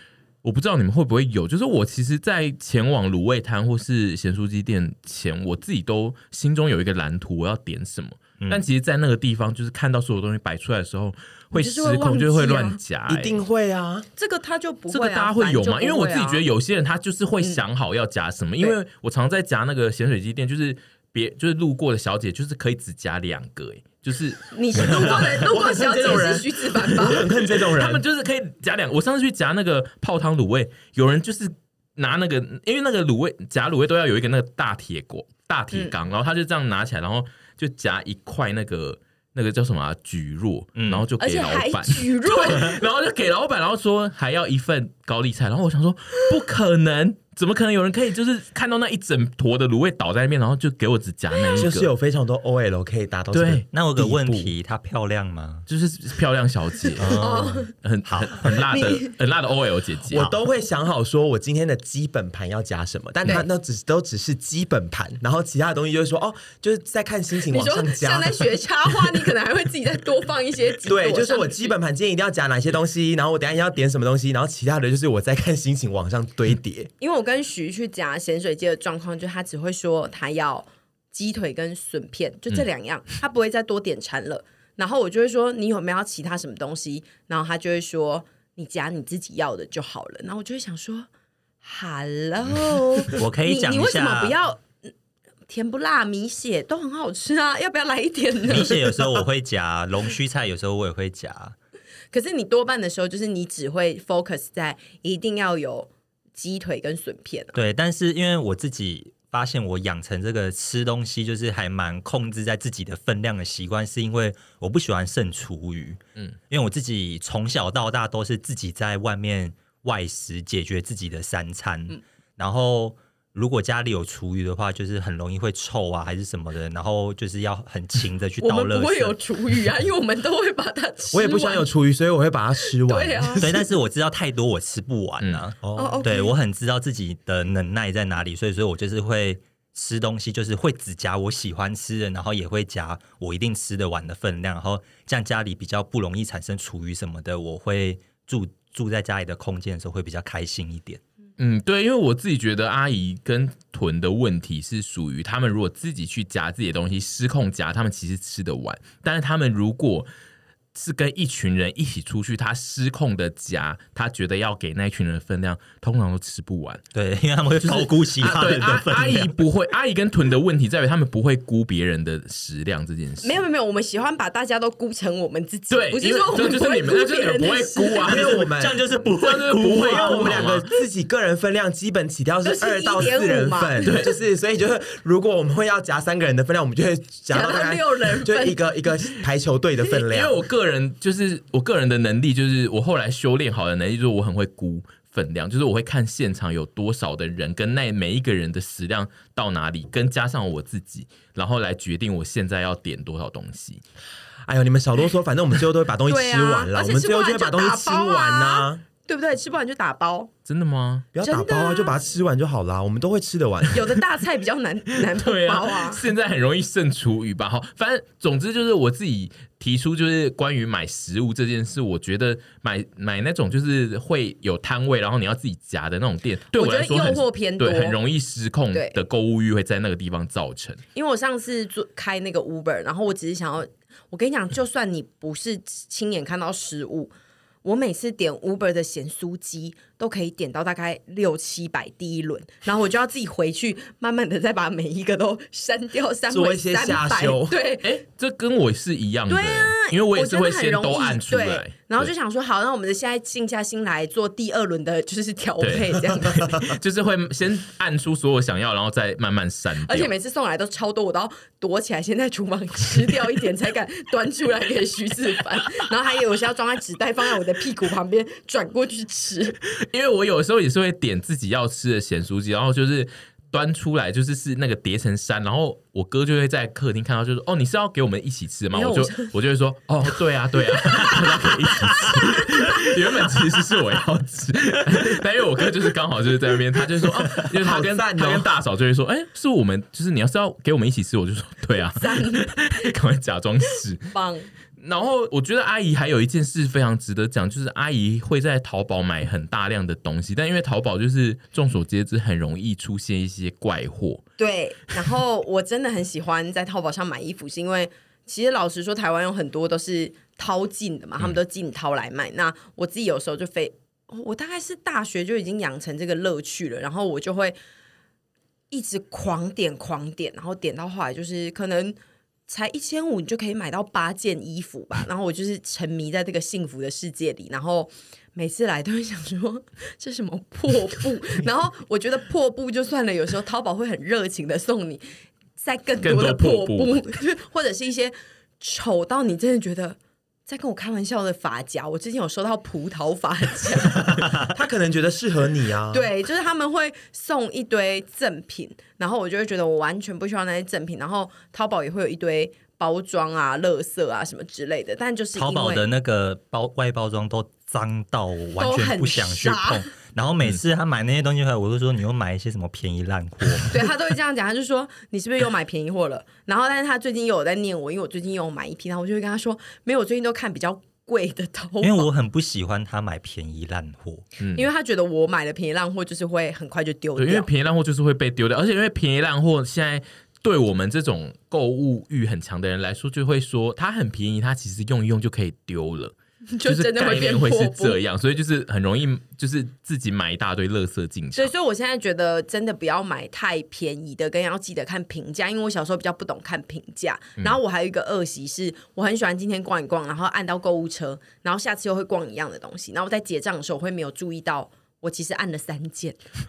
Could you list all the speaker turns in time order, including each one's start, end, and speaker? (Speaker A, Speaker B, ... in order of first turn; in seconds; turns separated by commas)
Speaker A: 0.4-13.4, Speaker B: 8.4-8.6, Speaker C: 11.5-12.8, Speaker D: 13.1-14.1, Speaker C: 14.2-16.4, Speaker A: 14.9-25.3, Speaker C: 24.5-27.2, Speaker D: 25.0-28.0, Speaker A: 27.2-51.9, Speaker B: 40.8-41.1, Speaker C: 41.2-42.8, Speaker D: 51.5-54.5, Speaker A: 53.3-53.6, Speaker B: 53.7-55.6, Speaker A: 55.7-60.3, Speaker B: 57.0-58.6, Speaker C: 57.1-57.7, Speaker C: 58.7-59.1, Speaker D: 60.1-68.5, Speaker C: 67.5-71.7, Speaker D: 70.8-76.9, Speaker C: 77.0-91.1, Speaker C: 91.6-94.7, Speaker B: 93.1-94.3, Speaker C: 95.5-98.9, Speaker B: 98.4-101.5, Speaker C: 102.1-107.5, Speaker B: 107.5-129.2, Speaker C: 128.4-131.6, Speaker D: 131.1-133.6, Speaker C: 132.8-133.4, Speaker B: 133.4-151.0, Speaker D: 135.6-136.1, Speaker C: 135.8-136.3, Speaker A: 151.4-160.1, Speaker A: 160.7-166.8, Speaker B: 166.9-169.3, Speaker A: 167.6-173.4, Speaker C: 173.2-178.2, Speaker A: 175.7-178.4, Speaker D: 178.0-178.8, Speaker B: 178.1-180.6, Speaker A: 179.2-180.7, Speaker D: 179.7-190.3, Speaker C: 182.4-184.1, Speaker A: 183.8-184.2, Speaker C: 187.3-188.6, Speaker A: 190.1-203.8, Speaker D: 204.4-208.8, Speaker C: 206.1-210.3, Speaker A: 210.4-211.1, Speaker D: 211.1-213.9, Speaker C: 211.2-211.9, Speaker C: 213.7-216.0, Speaker A: 215.1-230.8, Speaker C: 226.5-227.9, Speaker C: 230.9-237.1, Speaker C: 237.6-247.9, Speaker D: 246.3-247.6, Speaker A: 247.8-252.1, Speaker C: 249.3-256.8, Speaker A: 255.6-260.1, Speaker C: 259.9-269.5, Speaker A: 269.7-294.1, Speaker C: 278.7-279.3, Speaker C: 280.9-283.0, Speaker D: 287.4-288.5, Speaker C: 292.0-292.5, Speaker C: 294.1-294.5, Speaker A: 294.8-304.2, Speaker C: 304.4-317.5, Speaker C: 318.7-321.9, Speaker C: 322.5-335.0, Speaker C: 335.6-344.2, Speaker A: 336.0-337.0, Speaker D: 344.4-346.1, Speaker C: 345.9-355.8, Speaker B: 355.3-364.0, Speaker C: 358.6-359.8, Speaker C: 363.7-372.1, Speaker B: 371.8-374.2, Speaker A: 374.4-374.7, Speaker C: 374.5-377.5, Speaker A: 377.1-391.5, Speaker C: 386.5-387.9, Speaker C: 391.4-406.1